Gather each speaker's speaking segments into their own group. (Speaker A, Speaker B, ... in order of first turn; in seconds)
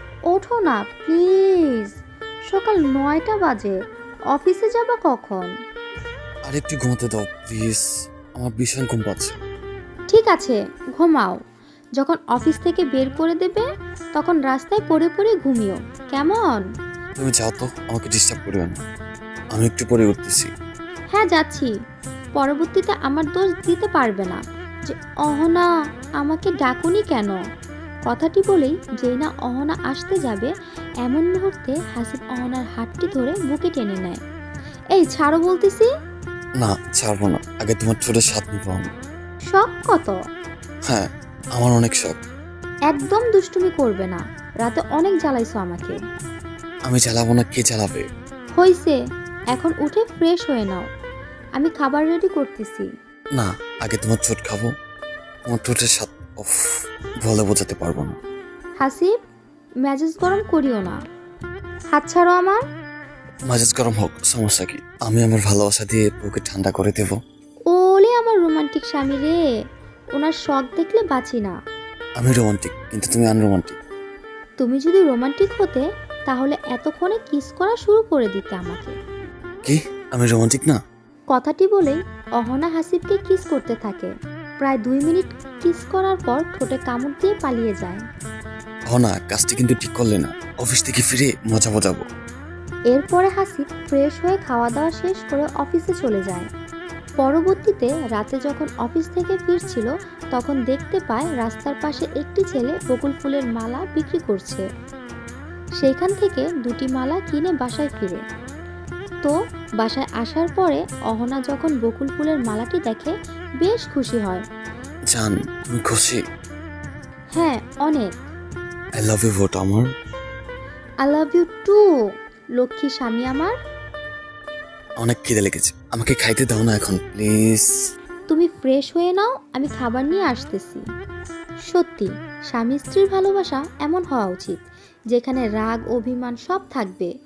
Speaker A: 0.3-1.9, 2.5-3.8, 4.3-5.5, 10.1-11.4, 12.0-16.6, 21.1-21.7, 22.4-25.7, 26.2-27.4, 28.1-30.5, 31.0-34.2, 34.9-35.9, 39.5-40.2, 42.9-46.0, 48.6-49.0, 49.5-50.9, 51.6-52.9, 58.8-59.1, 59.8-61.0, 61.9-62.6, 67.7-69.3, 70.1-71.5, 74.6-78.9, 81.3-88.0, 92.9-96.5, 97.2-104.6, 105.8-108.2, 109.2-114.4, 117.3-118.1, 121.0-121.8, 122.6-123.5, 128.3-130.8, 131.7-134.6, 135.1-137.1
Speaker B: 6.5-7.8, 8.4-9.4, 17.2-18.8, 19.5-20.5, 36.6-38.9, 40.9-42.2, 46.9-48.0, 53.4-54.7, 55.5-56.6, 57.2-58.2, 63.5-67.2, 72.2-73.8, 79.6-80.8, 88.9-92.0, 115.1-116.2, 119.0-119.8, 125.0-127.7